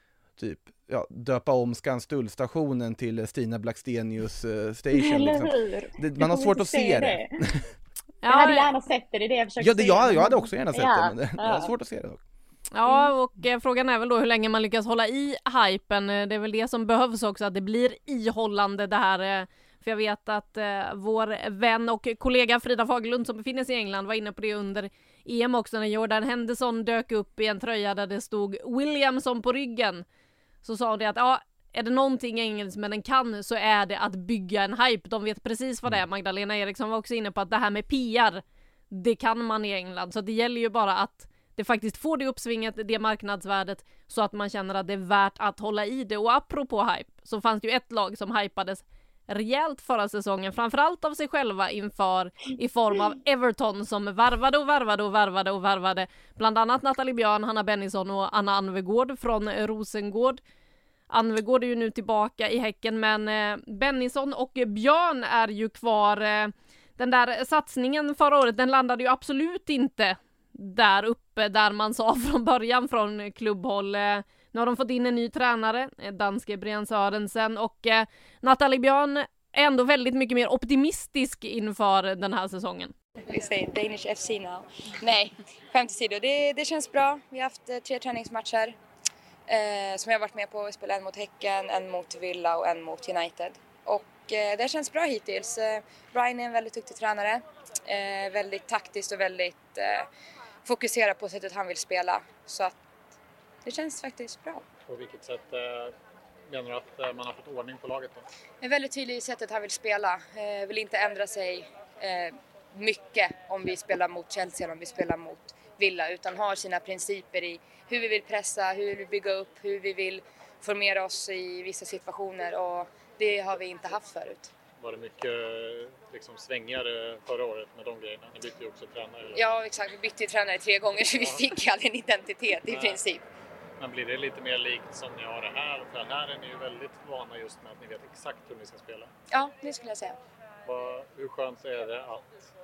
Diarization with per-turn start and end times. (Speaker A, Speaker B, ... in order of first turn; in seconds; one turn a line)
Speaker A: 0.4-7.6
Speaker B: 5.0-7.3
Speaker C: 8.2-8.6
Speaker B: 8.3-11.7
Speaker A: 9.6-12.2
Speaker C: 12.7-30.0
Speaker C: 30.6-60.4
Speaker C: 61.1-82.9
Speaker D: 83.2-88.7
Speaker D: 89.5-100.1
Speaker D: 100.6-102.8
Speaker D: 103.6-104.6
Speaker E: 104.9-105.9
Speaker E: 106.5-108.2
Speaker D: 108.6-124.5
Speaker E: 124.8-129.4
Speaker D: 129.3-133.2
Speaker E: 131.0-131.5
Speaker E: 132.6-133.0
Speaker E: 133.8-139.1
Speaker D: 139.3-140.2
Speaker E: 140.6-142.3